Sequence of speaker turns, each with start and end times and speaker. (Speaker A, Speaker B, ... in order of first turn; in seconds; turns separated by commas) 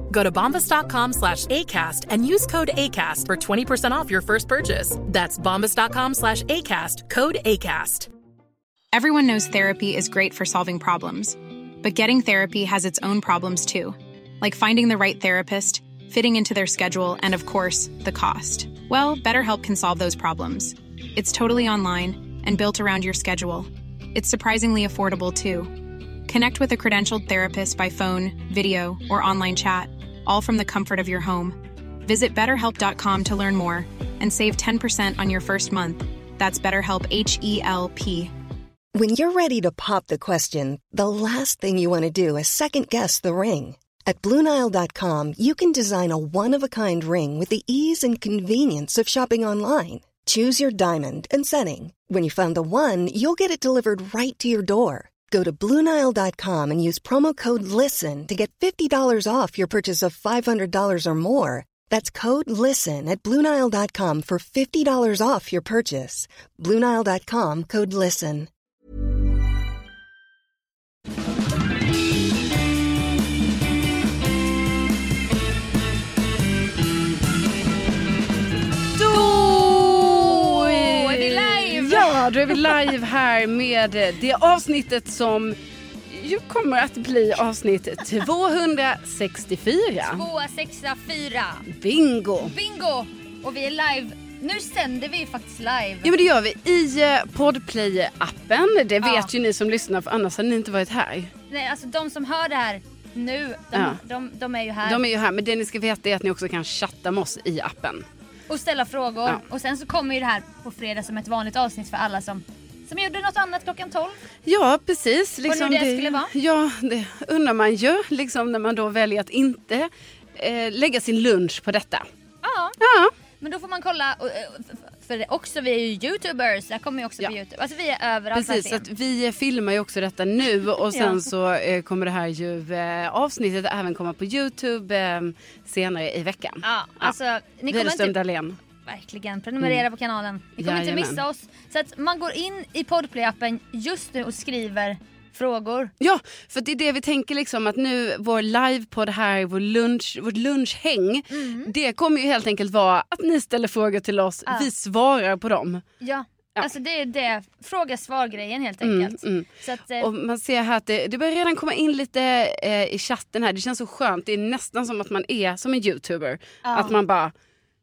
Speaker A: 0.1-8.1, Speaker B: 8.9-38.3, Speaker C: 38.9-68.5, Speaker D: 78.9-85.6, Speaker E: 80.1-82.7, Speaker D: 86.1-90.2, Speaker E: 90.0-91.7, Speaker D: 91.7-92.5, Speaker E: 92.4-96.1, Speaker D: 96.0-101.3, Speaker E: 99.0-99.3, Speaker E: 101.5-105.0, Speaker D: 103.7-104.0, Speaker D: 104.8-108.1, Speaker E: 108.5-114.2, Speaker D: 114.4-122.1, Speaker E: 115.5-116.3, Speaker E: 122.4-122.8, Speaker D: 122.8-123.1, Speaker E: 123.4-128.9, Speaker D: 128.3-137.2, Speaker E: 130.9-131.2, Speaker E: 136.6-138.2, Speaker D: 137.7-138.6, Speaker E: 138.8-145.9, Speaker D: 140.6-141.2, Speaker D: 146.0-155.8, Speaker E: 151.3-151.7, Speaker E: 156.0-160.1, Speaker D: 158.8-167.3, Speaker E: 166.6-167.0